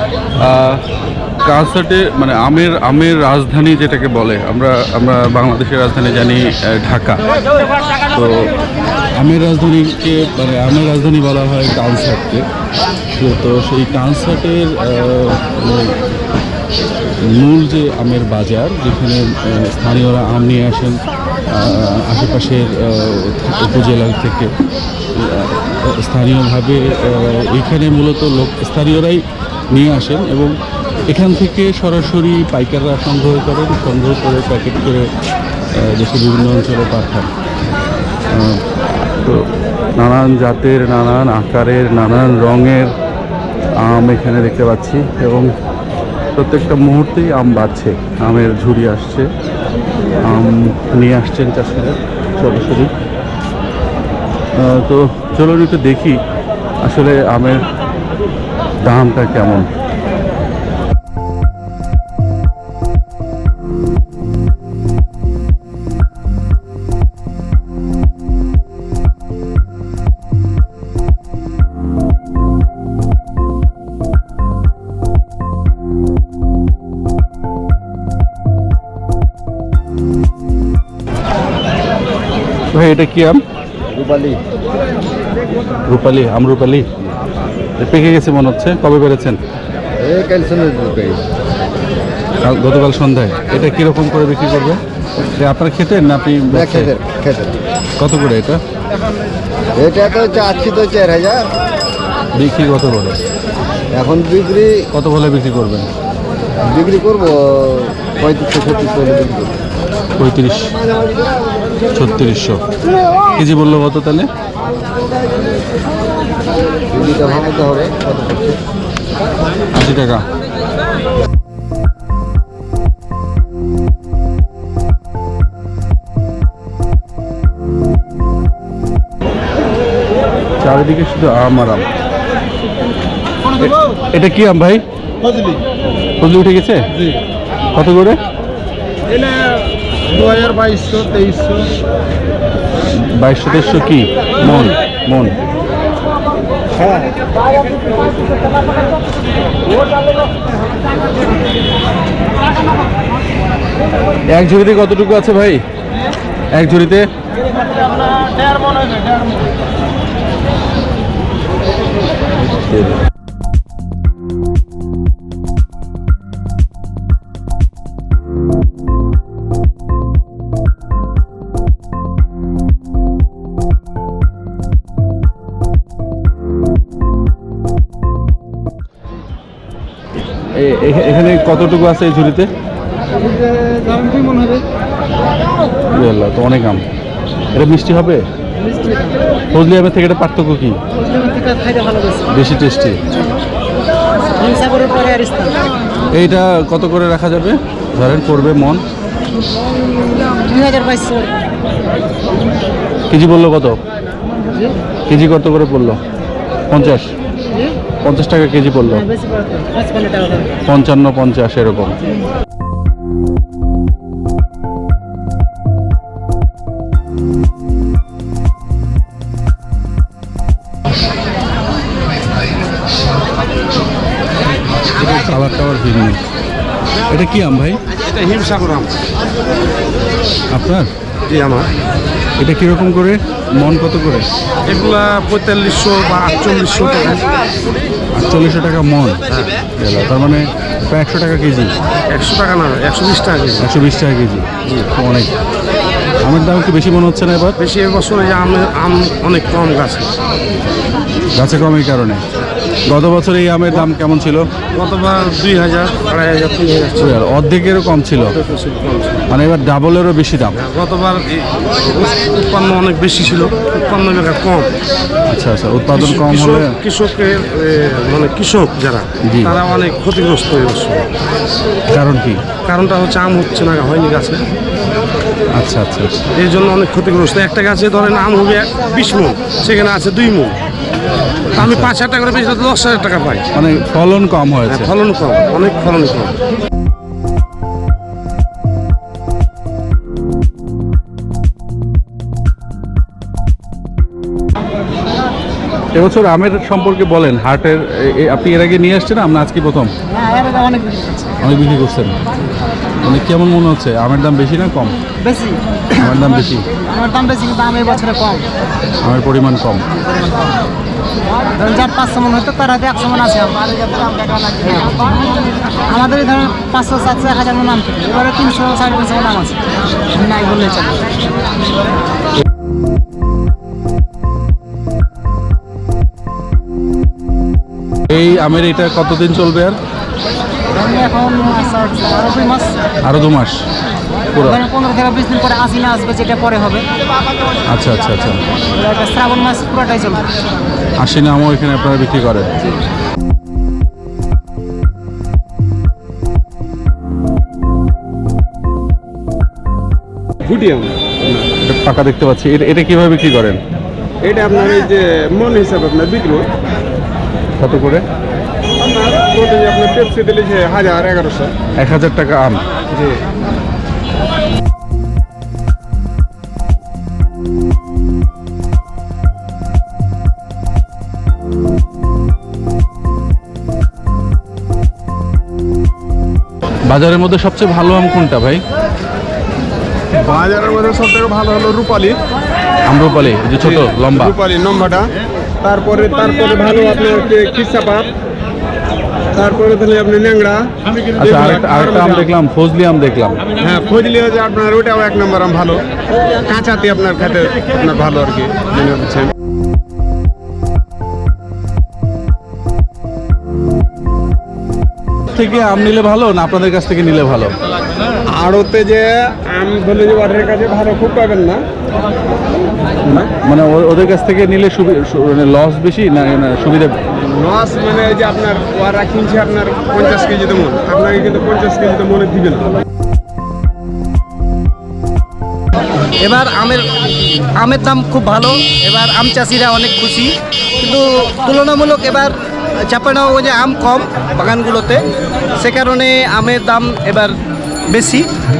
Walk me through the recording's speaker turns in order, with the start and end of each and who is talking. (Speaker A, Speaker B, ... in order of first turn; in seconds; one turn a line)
Speaker A: 0.4-0.8
Speaker A: 1.4-7.2
Speaker A: 8.1-8.5
Speaker A: 9.2-12.4
Speaker A: 13.2-16.0
Speaker A: 17.2-24.5
Speaker A: 25.1-30.6
Speaker A: 31.1-35.1
Speaker A: 35.7-37.3
Speaker A: 38.3-38.6
Speaker A: 39.2-42.9
Speaker A: 43.8-45.5
Speaker A: 46.4-49.3
Speaker A: 50.2-52.9
Speaker A: 54.5-56.2
Speaker A: 56.8-57.6
Speaker A: 58.8-59.7
Speaker A: 82.7-83.4
Speaker B: 83.9-84.4
Speaker A: 85.9-86.9
Speaker A: 87.8-89.4
Speaker B: 90.0-91.2
Speaker A: 92.4-94.8
Speaker A: 95.3-96.9
Speaker B: 96.5-97.5
Speaker A: 98.0-98.6
Speaker B: 99.8-101.5
Speaker A: 102.4-103.2
Speaker B: 103.9-104.8
Speaker A: 104.9-105.9
Speaker B: 106.7-109.5
Speaker A: 110.2-110.7
Speaker A: 111.9-112.6
Speaker A: 113.3-114.3
Speaker B: 116.9-118.6
Speaker A: 119.7-120.2
Speaker A: 130.6-131.9
Speaker A: 133.6-134.8
Speaker A: 136.2-137.1
Speaker A: 137.7-138.2
Speaker A: 142.9-145.4
Speaker A: 154.3-155.6
Speaker A: 156.5-157.1
Speaker A: 162.6-163.0
Speaker A: 180.6-182.5
Speaker C: 183.6-184.6
Speaker A: 185.9-186.8
Speaker A: 187.5-188.2
Speaker C: 188.8-189.0
Speaker A: 189.5-190.8
Speaker C: 191.0-192.2
Speaker A: 192.3-193.0
Speaker C: 194.3-195.6
Speaker A: 196.1-198.8
Speaker C: 200.4-201.3
Speaker A: 203.1-203.8
Speaker A: 205.1-206.0
Speaker A: 206.7-207.1
Speaker A: 208.0-209.1
Speaker C: 208.9-210.5
Speaker A: 210.7-212.0
Speaker A: 225.0-226.2
Speaker A: 227.1-227.8
Speaker D: 228.0-228.9
Speaker A: 230.5-230.9
Speaker D: 231.3-231.7
Speaker A: 232.4-234.2
Speaker D: 234.7-237.3
Speaker A: 238.1-239.2
Speaker A: 239.8-241.7
Speaker D: 242.1-243.7
Speaker A: 243.6-245.3
Speaker A: 246.2-247.6
Speaker D: 247.6-250.1
Speaker A: 251.4-252.2
Speaker A: 252.9-254.4
Speaker D: 254.7-257.2
Speaker A: 257.0-258.4
Speaker D: 258.4-259.2
Speaker A: 259.3-260.6
Speaker D: 260.6-264.7
Speaker A: 265.3-266.7
Speaker D: 265.9-271.1
Speaker A: 269.2-269.6
Speaker A: 271.9-272.4
Speaker D: 272.6-274.4
Speaker A: 275.6-276.2
Speaker D: 276.3-280.6
Speaker A: 281.6-281.9
Speaker D: 281.6-283.4
Speaker A: 283.5-284.9
Speaker D: 284.7-286.3
Speaker A: 295.9-299.9
Speaker C: 300.2-301.2
Speaker A: 301.4-302.1
Speaker A: 303.0-305.0
Speaker C: 305.2-306.1
Speaker A: 306.0-306.6
Speaker C: 306.8-308.5
Speaker A: 309.0-309.8
Speaker C: 311.5-315.1
Speaker C: 315.9-319.6
Speaker C: 320.1-321.0
Speaker A: 328.1-329.8
Speaker C: 330.7-332.8
Speaker A: 333.0-333.6
Speaker A: 334.3-334.6
Speaker C: 334.4-336.9
Speaker A: 337.7-338.4
Speaker C: 338.7-340.3
Speaker A: 341.0-342.6
Speaker E: 350.4-351.5
Speaker A: 351.6-353.6
Speaker E: 354.2-356.5
Speaker A: 357.6-358.0
Speaker E: 358.8-361.5
Speaker A: 361.8-362.6
Speaker E: 362.9-363.2
Speaker A: 376.9-378.6
Speaker E: 380.1-382.2
Speaker A: 382.9-384.3
Speaker E: 383.6-385.1
Speaker E: 385.6-388.1
Speaker E: 389.3-390.7
Speaker A: 391.2-393.4
Speaker E: 391.2-392.2
Speaker E: 393.6-395.8
Speaker E: 396.4-399.3
Speaker A: 405.3-407.5
Speaker E: 408.3-411.6
Speaker A: 413.1-416.9
Speaker E: 417.1-422.7
Speaker F: 426.2-426.9
Speaker F: 427.5-437.3
Speaker F: 437.9-438.3